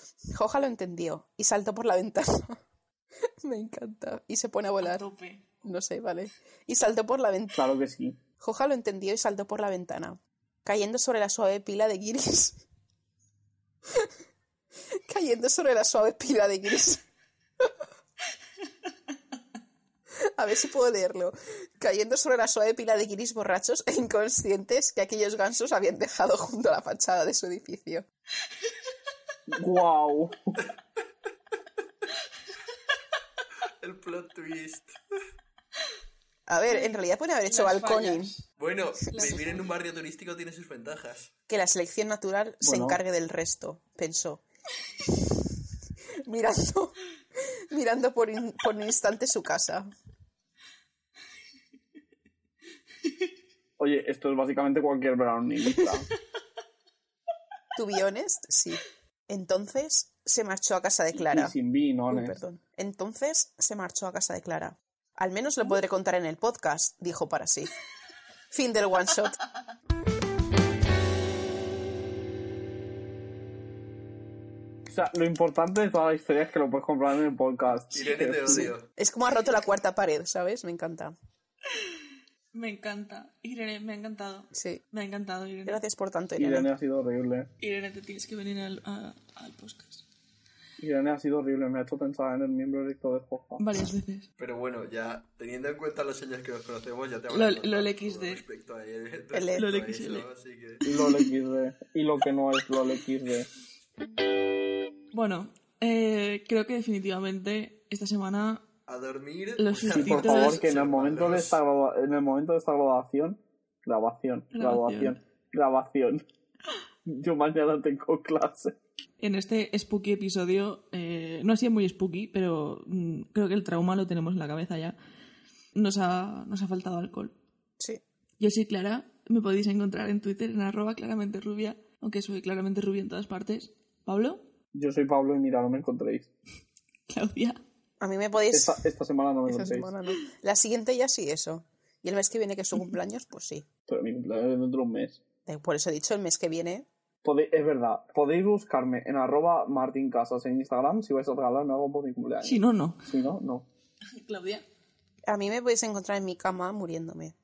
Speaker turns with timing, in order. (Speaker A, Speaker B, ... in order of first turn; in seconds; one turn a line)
Speaker A: 0.3-2.6
Speaker A: 3.4-5.0
Speaker B: 4.8-5.5
Speaker A: 5.6-7.7
Speaker C: 7.5-8.2
Speaker A: 8.4-12.6
Speaker A: 15.1-17.0
Speaker A: 20.3-28.0
Speaker C: 29.5-30.6
Speaker D: 33.8-35.0
Speaker A: 36.5-38.3
Speaker B: 36.7-38.4
Speaker D: 38.6-41.3
Speaker B: 39.1-39.7
Speaker A: 41.5-44.4
Speaker C: 42.6-43.0
Speaker A: 46.2-49.9
Speaker C: 53.8-56.1
Speaker A: 57.8-61.5
Speaker C: 61.1-62.4
Speaker A: 62.1-67.7
Speaker A: 68.5-69.4
Speaker C: 74.9-78.7
Speaker D: 77.9-78.9
Speaker A: 78.5-81.1
Speaker B: 82.5-85.8
Speaker A: 84.5-84.8
Speaker A: 85.7-86.7
Speaker C: 86.4-87.5
Speaker B: 87.6-90.0
Speaker C: 90.8-93.6
Speaker B: 93.6-94.3
Speaker D: 94.4-100.8
Speaker B: 97.3-98.4
Speaker A: 99.3-99.7
Speaker B: 99.5-100.3
Speaker B: 100.8-101.2
Speaker C: 100.8-103.5
Speaker B: 105.1-108.7
Speaker D: 108.9-111.6
Speaker B: 109.5-110.6
Speaker C: 109.9-116.2
Speaker B: 114.5-115.2
Speaker C: 117.0-118.8
Speaker B: 119.2-125.0
Speaker B: 125.7-127.3
Speaker B: 128.4-134.4
Speaker C: 134.7-136.3
Speaker B: 137.1-137.6
Speaker A: 138.0-138.8
Speaker C: 138.5-139.9
Speaker A: 139.5-143.7
Speaker C: 143.9-145.2
Speaker A: 145.4-146.8
Speaker C: 147.2-153.7
Speaker B: 152.4-153.1
Speaker B: 154.1-154.6
Speaker A: 155.3-157.3